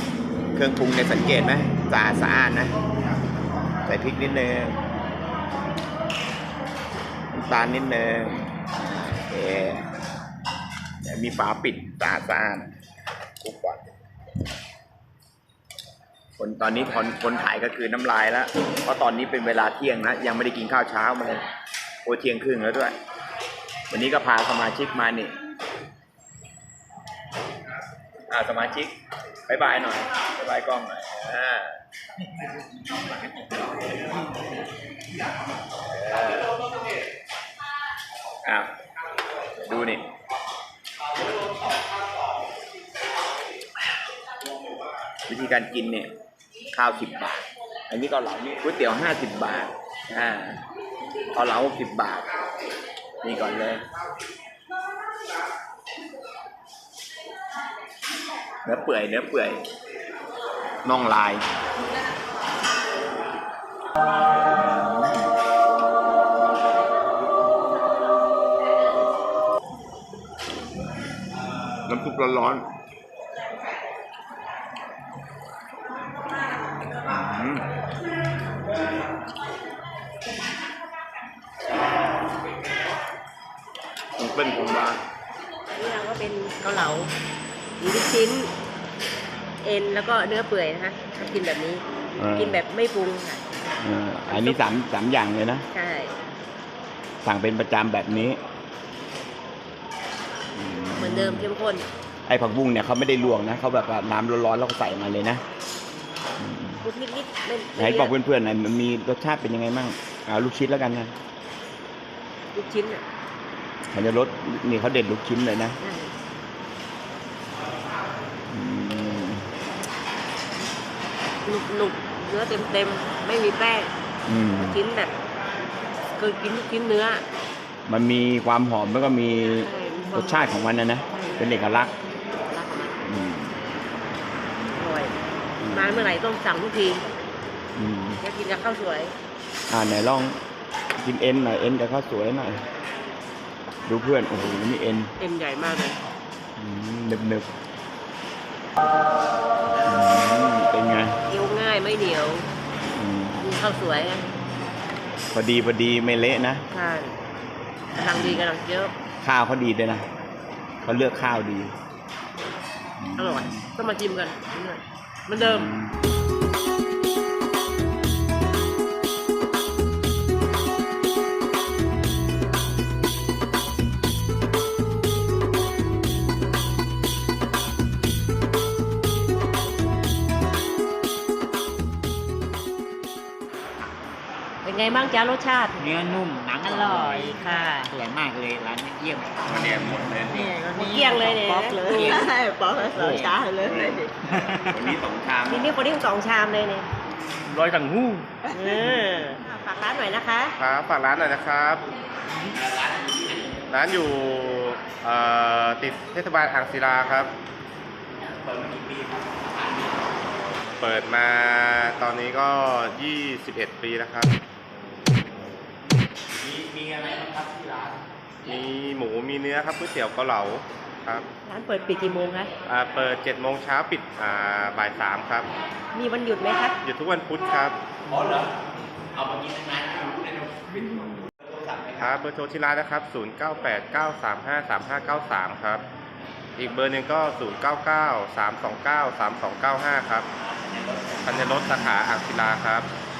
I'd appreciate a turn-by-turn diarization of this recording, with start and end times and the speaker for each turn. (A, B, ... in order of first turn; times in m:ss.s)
0:00.5-0:02.7 A
0:03.8-0:04.8 A
0:07.3-0:08.5 A
0:09.0-0:09.9 A
0:11.0-0:12.7 A
0:13.4-0:13.9 A
0:16.4-0:21.4 A
0:22.0-0:23.0 A
0:23.9-0:25.4 A
0:28.3-0:28.9 A
0:29.5-0:31.8 A
0:33.0-0:33.5 A
0:35.9-0:36.5 A
0:38.4-0:38.7 A
0:39.5-0:40.1 A
0:45.3-0:46.1 A
0:46.7-0:50.6 A
0:51.3-0:52.4 A
0:53.2-0:53.8 A
0:58.6-0:59.6 A
1:00.8-1:01.4 A
1:11.8-1:12.7 A
1:17.0-1:17.7 A
1:24.2-1:25.0 A
1:25.7-1:27.1 B
1:27.8-1:28.5 B
1:29.6-1:31.8 B
1:32.2-1:32.6 A
1:32.3-1:33.5 B
1:33.8-1:35.6 A
1:34.3-1:34.6 B
1:35.7-1:36.1 B
1:37.2-1:38.4 A
1:40.5-1:41.5 A
1:41.0-1:41.8 B
1:42.3-1:45.4 A
1:46.4-1:46.8 A
1:46.8-1:48.1 B
1:47.8-1:51.1 A
1:52.5-1:53.0 B
1:53.9-1:55.8 A
1:55.8-1:56.1 B
1:58.5-1:59.5 A
2:01.4-2:03.9 B
2:04.2-2:04.8 A
2:04.7-2:05.1 B
2:06.2-2:07.2 B
2:07.8-2:11.9 A
2:09.6-2:10.6 B
2:11.1-2:11.4 B
2:12.4-2:13.0 B
2:13.0-2:13.6 A
2:14.7-2:15.1 B
2:15.6-2:16.2 A
2:15.7-2:17.0 B
2:17.8-2:18.2 A
2:18.2-2:19.1 B
2:19.7-2:20.4 A
2:21.0-2:22.6 A
2:23.8-2:25.1 A
2:25.2-2:26.0 B
2:26.6-2:27.5 A
2:29.8-2:31.2 A
2:31.3-2:32.4 B
2:32.9-2:33.4 A
2:33.4-2:34.3 B
2:35.3-2:36.6 A
2:36.7-2:37.2 B
2:37.9-2:38.9 B
2:38.1-2:38.4 A
2:39.2-2:40.0 A
2:40.8-2:41.7 A
2:43.0-2:43.7 A
2:43.2-2:45.7 B
2:45.3-2:46.0 A
3:04.6-3:05.9 B
3:05.8-3:14.8 C
3:06.7-3:07.9 B
3:09.4-3:10.5 A
3:10.6-3:14.0 B
3:13.5-3:15.7 A
3:15.5-3:16.9 B
3:17.4-3:18.3 D
3:18.5-3:20.5 B
3:20.6-3:21.9 D
3:22.5-3:23.5 A
3:23.7-3:27.3 D
3:28.3-3:29.9 A
3:30.8-3:34.3 D
3:36.4-3:38.0 A
3:38.4-3:41.3 D
3:41.4-3:42.5 B
3:42.6-3:45.5 D
3:45.9-3:46.8 B
3:46.8-3:47.8 D
3:48.1-3:48.5 A
3:49.1-3:52.2 A
3:52.0-3:55.8 D
3:56.6-4:00.3 D
4:00.4-4:01.7 A
4:01.2-4:02.9 D